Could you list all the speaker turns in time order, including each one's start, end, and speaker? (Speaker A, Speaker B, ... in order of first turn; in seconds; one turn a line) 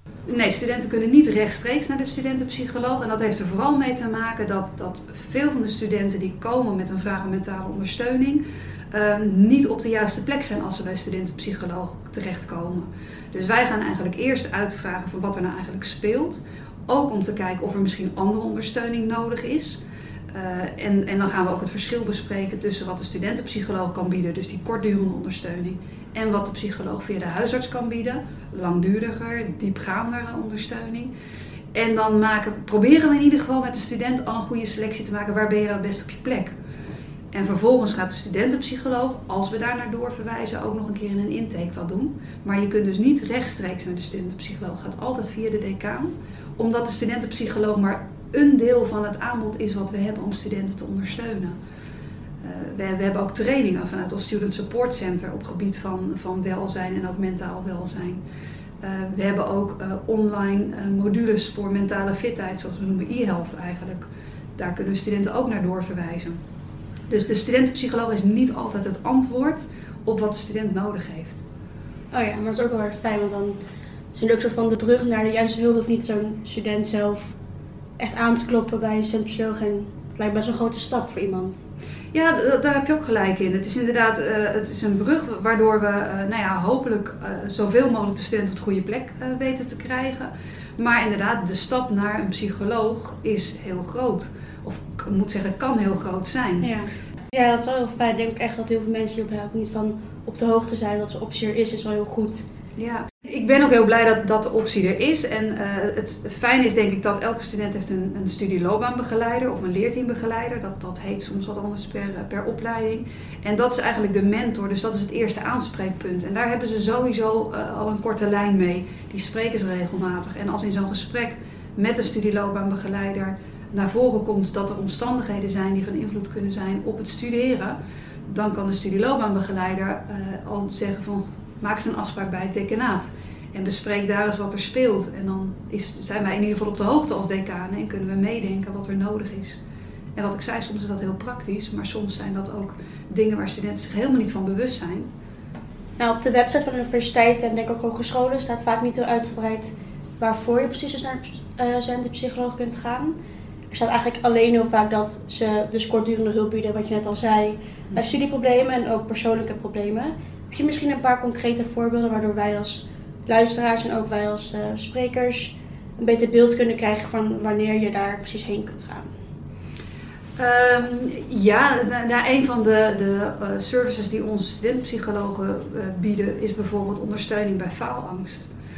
Speaker A: 0.3-19.8
Speaker A: 20.3-31.1
Speaker A: 31.7-36.5
Speaker A: 37.3-51.6
Speaker A: 52.4-58.2
Speaker A: 58.8-66.4
Speaker A: 67.1-71.4
Speaker B: 72.1-73.6
Speaker B: 74.1-77.3
Speaker B: 78.0-81.6
Speaker A: 82.1-96.7
Speaker B: 96.6-102.4
Speaker A: 102.8-127.8
Speaker A: 128.3-139.6
Speaker A: 140.2-145.1
Speaker B: 146.0-153.1
Speaker B: 153.7-169.1
Speaker A: 170.4-178.5